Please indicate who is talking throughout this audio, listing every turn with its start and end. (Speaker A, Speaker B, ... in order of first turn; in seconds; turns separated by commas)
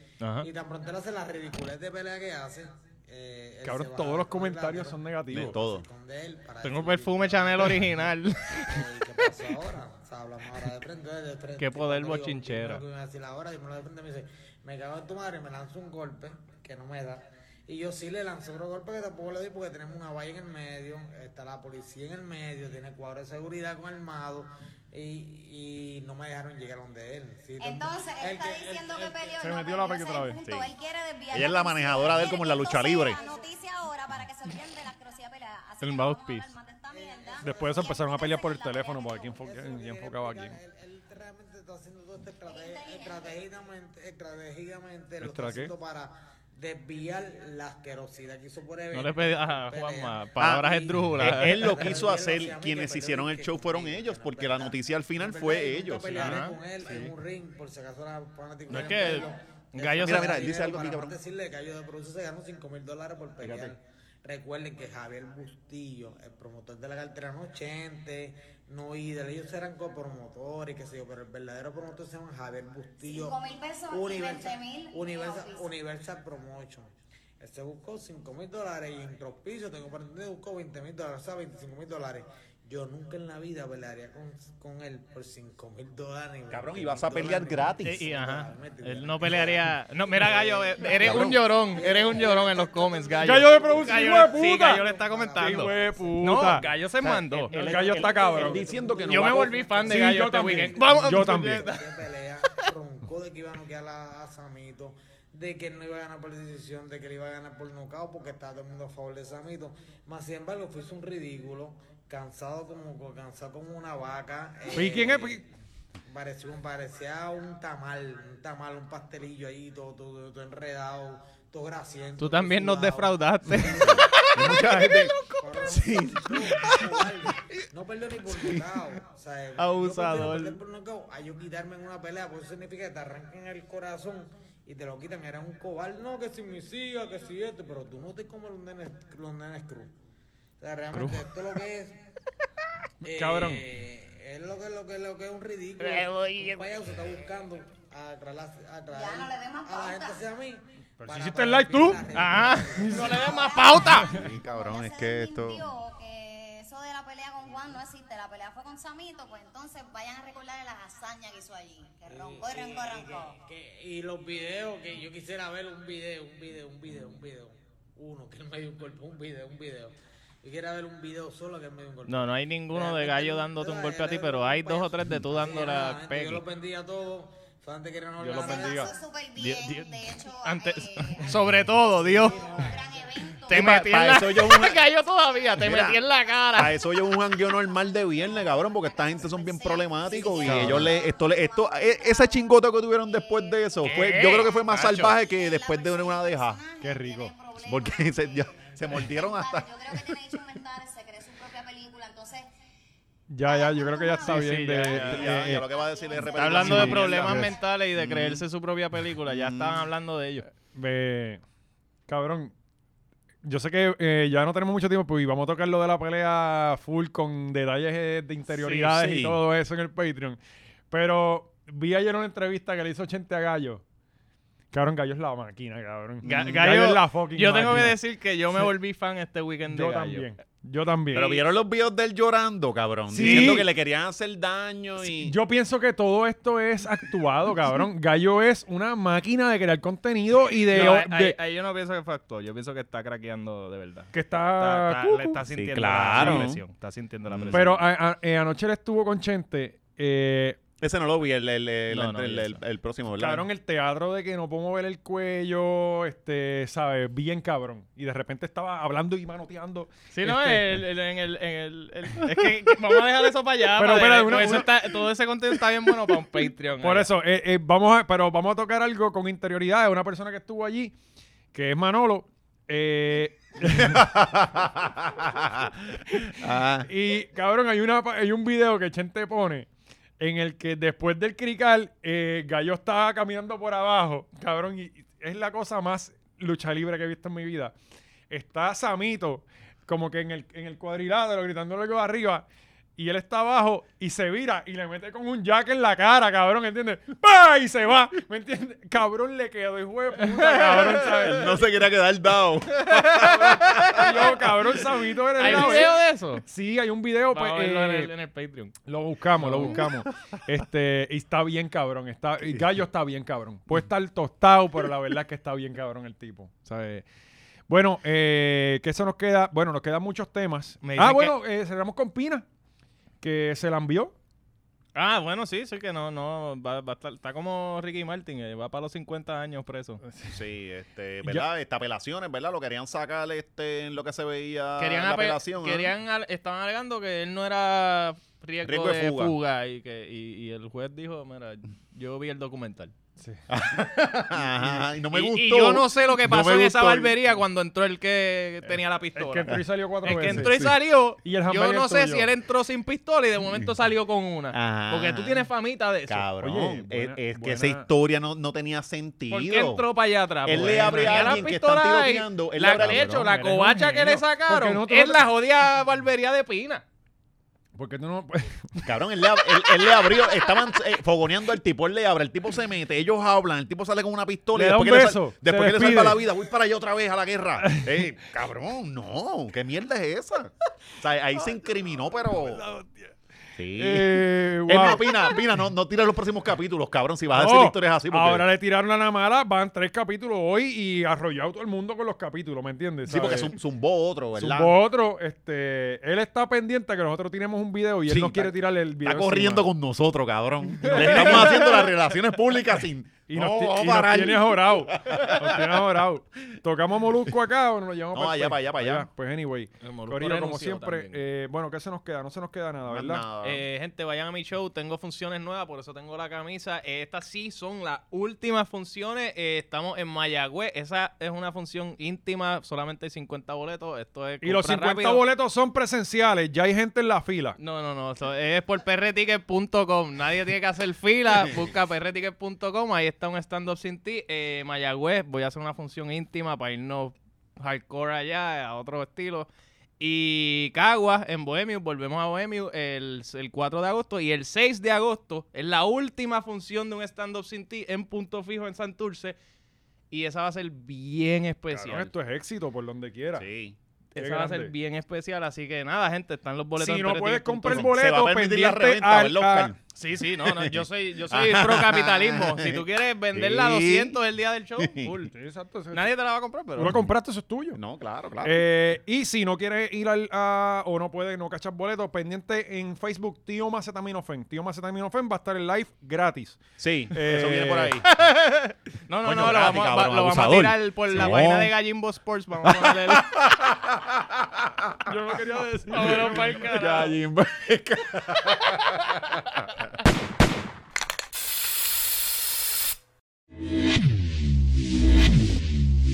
Speaker A: 0.2-0.5, Speaker B: 0.4-7.9, Speaker C: 3.6-5.6, Speaker D: 5.3-5.9, Speaker A: 6.6-8.9, Speaker B: 8.7-29.6, Speaker A: 11.6-12.8, Speaker E: 27.6-39.5, Speaker C: 29.4-30.4, Speaker D: 30.4-30.7, Speaker D: 31.3-33.2, Speaker B: 33.1-33.5, Speaker A: 35.8-36.5, Speaker B: 36.9-38.0, Speaker C: 37.4-40.6, Speaker B: 39.4-96.7, Speaker E: 42.4-43.4, Speaker C: 45.2-45.7, Speaker A: 48.9-52.0, Speaker D: 50.4-56.4, Speaker A: 56.1-56.6, Speaker A: 58.7-60.5, Speaker D: 60.0-61.1, Speaker D: 63.4-63.7, Speaker E: 73.0-75.7, Speaker D: 86.5-88.1, Speaker A: 87.8-98.4, Speaker D: 90.9-91.6, Speaker C: 93.2-94.8, Speaker C: 95.4-96.7, Speaker C: 97.3-101.7, Speaker B: 97.4-115.5, Speaker D: 98.3-99.6, Speaker A: 99.1-101.9, Speaker C: 114.7-115.4, Speaker B: 116.1-139.9, Speaker A: 122.2-124.9, Speaker D: 123.6-126.9, Speaker D: 128.3-128.6, Speaker A: 129.6-130.6, Speaker B: 140.6-142.0, Speaker B: 143.0-153.7, Speaker C: 143.0-143.6, Speaker A: 145.9-146.5, Speaker E: 148.9-150.2, Speaker C: 151.0-152.1, Speaker A: 152.1-154.1, Speaker C: 152.8-153.2, Speaker E: 153.1-163.4, Speaker D: 153.9-155.7, Speaker B: 162.1-179.0, Speaker A: 172.1-176.4, Speaker C: 178.2-178.9, Speaker E: 178.3-181.3, Speaker A: 179.4-182.4, Speaker B: 181.9-183.3, Speaker E: 182.2-183.9, Speaker A: 183.4-186.7, Speaker D: 183.5-184.8, Speaker D: 185.6-186.0, Speaker D: 186.5-196.6, Speaker E: 187.0-202.5, Speaker C: 190.5-190.8, Speaker A: 190.5-190.8, Speaker A: 193.8-195.1, Speaker C: 196.8-197.3, Speaker D: 197.6-200.2, Speaker C: 203.3-205.6, Speaker E: 203.4-206.7, Speaker A: 204.3-205.4, Speaker D: 204.9-208.4, Speaker A: 206.3-210.5, Speaker C: 206.5-207.5, Speaker D: 209.2-209.9, Speaker C: 210.7-211.4, Speaker C: 212.1-212.5, Speaker C: 213.4-220.4, Speaker A: 218.6-219.0, Speaker D: 218.9-219.4, Speaker C: 220.9-223.8, Speaker C: 224.7-228.0, Speaker D: 226.2-226.5, Speaker A: 226.2-230.3, Speaker C: 229.7-231.4, Speaker D: 231.1-235.4, Speaker C: 233.1-233.7, Speaker A: 233.2-233.6, Speaker C: 235.0-241.4, Speaker A: 240.7-247.8, Speaker C: 244.1-245.4, Speaker D: 245.5-246.6, Speaker C: 246.2-246.5, Speaker D: 247.3-247.7, Speaker C: 247.5-250.6, Speaker D: 250.8-253.5, Speaker A: 251.9-252.6, Speaker C: 253.2-260.8, Speaker A: 260.1-267.1, Speaker C: 263.8-264.7, Speaker C: 266.8-270.9, Speaker C: 271.5-274.1, Speaker D: 273.6-276.9, Speaker C: 276.9-279.7, Speaker C: 280.2-287.8, Speaker C: 288.3-292.4, Speaker C: 293.0-301.6, Speaker A: 300.3-301.4, Speaker D: 300.9-304.2, Speaker A: 302.8-304.4, Speaker C: 303.9-305.9, Speaker D: 305.4-305.9, Speaker A: 305.4-306.4, Speaker C: 306.4-308.1, Speaker A: 307.3-308.8, Speaker C: 308.9-317.0, Speaker A: 309.4-309.9, Speaker C: 317.7-322.5, Speaker A: 320.8-321.3, Speaker C: 323.2-324.1, Speaker A: 324.9-330.0, Speaker C: 330.0-330.4, Speaker D: 330.3-335.9, Speaker A: 334.8-342.9, Speaker D: 338.6-339.4, Speaker D: 343.5-347.3, Speaker C: 344.4-344.8, Speaker A: 345.1-356.3, Speaker C: 349.1-350.7, Speaker D: 350.2-350.8, Speaker C: 351.2-352.3, Speaker D: 354.5-355.5, Speaker D: 356.1-359.9, Speaker C: 356.4-357.9, Speaker A: 359.3-366.8, Speaker D: 360.4-363.3, Speaker C: 360.6-361.5, Speaker C: 362.8-365.2, Speaker C: 367.8-368.9, Speaker D: 368.9-382.6, Speaker C: 374.5-376.2, Speaker C: 377.6-377.9, Speaker C: 382.1-383.1, Speaker D: 383.6-388.5, Speaker C: 383.8-385.4, Speaker C: 387.3-393.5, Speaker D: 393.1-394.8, Speaker C: 394.4-399.7, Speaker D: 398.1-405.6, Speaker C: 400.8-401.7, Speaker A: 400.9-401.9, Speaker C: 403.3-413.2, Speaker D: 408.1-409.1, Speaker A: 409.8-411.2, Speaker D: 412.9-413.7, Speaker A: 413.4-425.2, Speaker C: 424.4-427.6, Speaker A: 427.6-439.5, Speaker A: 440.0-449.4, Speaker A: 450.1-452.1, Speaker C: 451.7-453.4, Speaker D: 453.3-453.8, Speaker A: 454.1-457.9, Speaker C: 454.2-454.7, Speaker C: 456.8-459.7, Speaker D: 457.7-459.8, Speaker A: 460.0-465.3, Speaker D: 460.4-464.2, Speaker D: 464.8-465.1, Speaker C: 465.3-466.1, Speaker A: 465.9-467.0, Speaker C: 466.8-467.8, Speaker D: 467.7-468.8, Speaker C: 468.4-478.0, Speaker D: 476.8-478.1, Speaker A: 478.1-483.3, Speaker D: 479.2-481.8, Speaker D: 482.6-485.1, Speaker C: 485.1-486.7, Speaker A: 485.9-487.1, Speaker D: 486.0-489.4